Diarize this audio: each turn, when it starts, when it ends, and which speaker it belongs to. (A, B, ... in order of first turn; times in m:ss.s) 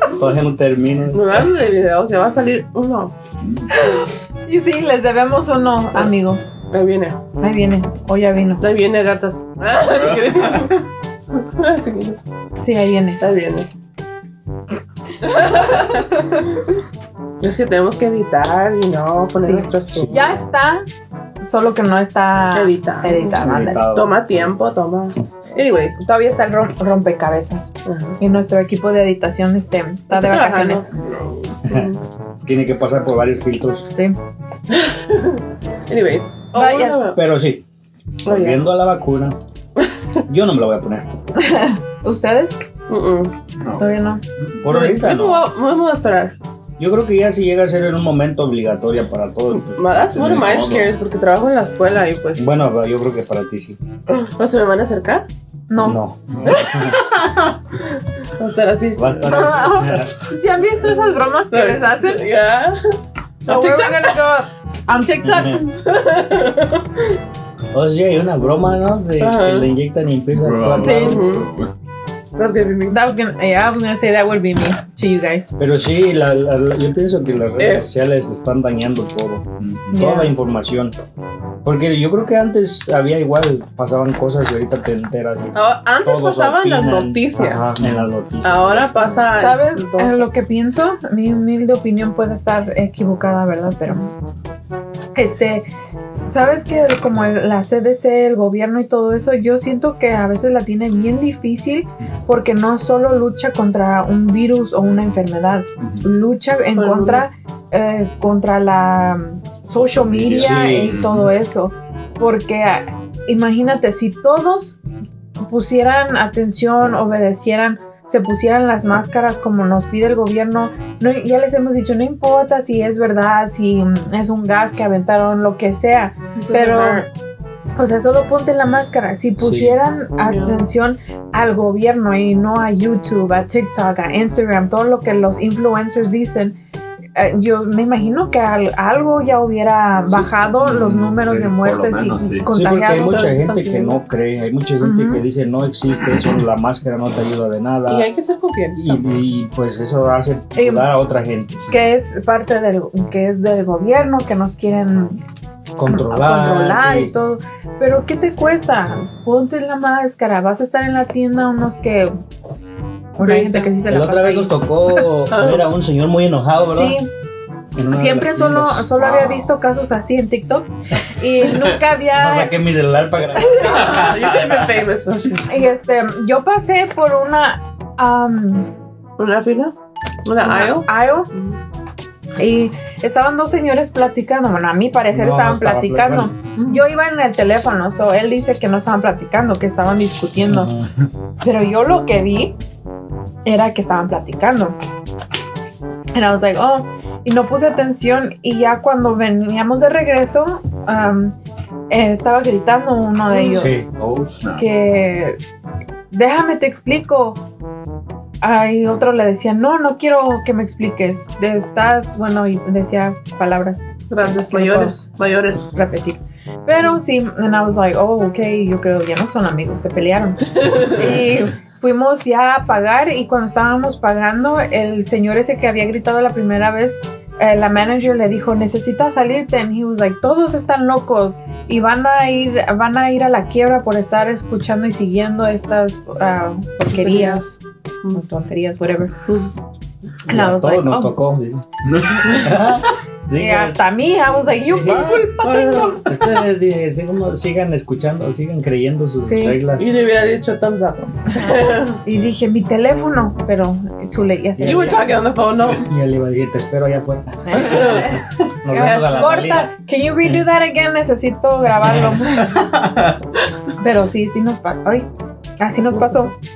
0:00.1-0:01.5 A
0:01.1-0:03.2 B
0:03.4-0:03.7 C
0:03.7-0:06.5 D
0:06.7-0:07.2 B
0:07.4-0:08.6 D
0:08.6-0:12.2 B
0:09.8-0:10.7 C
0:12.6-0:13.2 D
0:13.2-0:13.7 B
0:15.2-0:16.6 B
0:15.5-0:15.8 D
0:17.4-0:20.3 B
0:19.4-0:20.8 D
0:19.9-0:20.2 A
0:21.4-0:23.8 D
0:22.5-0:26.0 B
0:23.4-0:24.1 A
0:26.0-0:30.9 D
0:27.8-0:28.2 B
0:30.1-0:30.9 B
0:30.9-0:31.6 C
0:31.7-0:32.0 B
0:31.7-0:33.9 A
0:34.7-0:37.2 B
0:36.6-0:37.1 D
0:37.1-0:37.6 A
0:38.2-0:38.7 B
0:38.2-0:39.4 A
0:39.8-0:40.2 B
0:40.3-0:41.1 A
0:41.4-0:42.6 D
0:42.9-0:43.3 B
0:43.6-0:44.6 C
0:43.8-0:44.2 D
0:44.6-0:45.5 A
0:44.7-0:46.4 B
0:46.8-0:50.8 A
0:49.5-0:52.5 B
0:50.1-0:50.9 C
0:52.4-0:53.8 A
0:54.1-0:55.3 B
0:55.7-0:56.0 D
0:55.8-0:57.0 A
0:56.3-0:56.7 C
0:56.5-0:57.0 B
0:58.4-0:59.4 B
0:59.0-1:00.2 A
0:59.3-1:02.2 D
1:01.5-1:04.2 B
1:03.5-1:05.7 D
1:05.2-1:05.6 A
1:05.8-1:07.2 B
1:07.7-1:11.2 A
1:09.2-1:09.7 B
1:10.3-1:11.7 C
1:10.8-1:11.2 D
1:10.8-1:11.5 B
1:12.4-1:13.0 B
1:12.9-1:15.5 D
1:15.6-1:21.0 A
1:17.6-1:17.9 B
1:19.6-1:20.0 C
1:19.9-1:20.3 D
1:21.6-1:29.0 A
1:25.5-1:27.8 B
1:27.8-1:28.1 C
1:28.4-1:30.2 B
1:29.3-1:34.1 D
1:35.2-1:35.7 D
1:36.2-1:54.8 D
1:45.8-1:46.1 C
1:46.8-1:47.3 B
1:50.0-1:51.1 A
1:50.1-1:51.3 C
1:55.5-2:07.1 D
2:06.4-2:07.0 B
2:07.8-2:16.6 D
2:09.4-2:09.8 A
2:10.2-2:10.6 B
2:17.2-2:23.4 D
2:20.1-2:22.5 C
2:22.5-2:28.1 A
2:22.9-2:24.0 B
2:24.8-2:25.2 D
2:27.9-2:29.0 B
2:28.7-2:31.7 A
2:30.6-2:30.9 D
2:31.7-2:35.2 D
2:35.8-2:37.1 A
2:35.9-2:42.1 D
2:43.2-2:45.0 D
2:43.2-2:43.8 B
2:43.9-2:47.0 A
2:45.3-2:45.6 B
2:46.7-2:47.1 D
2:47.8-2:49.5 A
2:47.9-2:52.5 D
2:51.4-2:54.2 A
2:53.4-2:53.8 D
2:53.5-2:55.6 B
2:53.9-2:54.6 C
2:55.5-2:58.7 D
2:59.2-3:01.6 B
3:00.4-3:01.3 D
3:02.4-3:10.7 D
3:05.1-3:06.4 A
3:06.6-3:06.8 B
3:10.4-3:10.9 A
3:11.4-3:12.6 D
3:13.4-3:14.8 D
3:16.1-3:21.4 D
3:21.9-3:23.8 D
3:23.5-3:23.9 A
3:23.8-3:24.7 C
3:24.6-3:25.4 D
3:26.1-3:27.4 D
3:28.4-3:35.0 D
3:34.1-3:35.7 B
3:35.8-3:57.5 D
3:40.5-3:41.0 B
3:56.8-3:58.2 B
3:58.1-3:59.2 D
3:59.3-3:59.5 B
4:00.3-4:01.6 A
4:00.3-4:01.2 D
4:01.8-4:02.7 C
4:02.2-4:03.8 A
4:03.4-4:06.0 D
4:04.6-4:05.3 A
4:05.3-4:06.0 B
4:06.0-4:09.9 A
4:09.2-4:09.6 D
4:09.7-4:12.0 B
4:11.3-4:15.2 D
4:14.6-4:15.0 A
4:14.6-4:15.9 B
4:15.7-4:19.7 A
4:17.5-4:22.7 D
4:17.6-4:18.2 B
4:18.7-4:19.6 B
4:21.7-4:22.9 A
4:23.8-4:25.1 D
4:25.6-4:26.3 D
4:25.8-4:26.3 B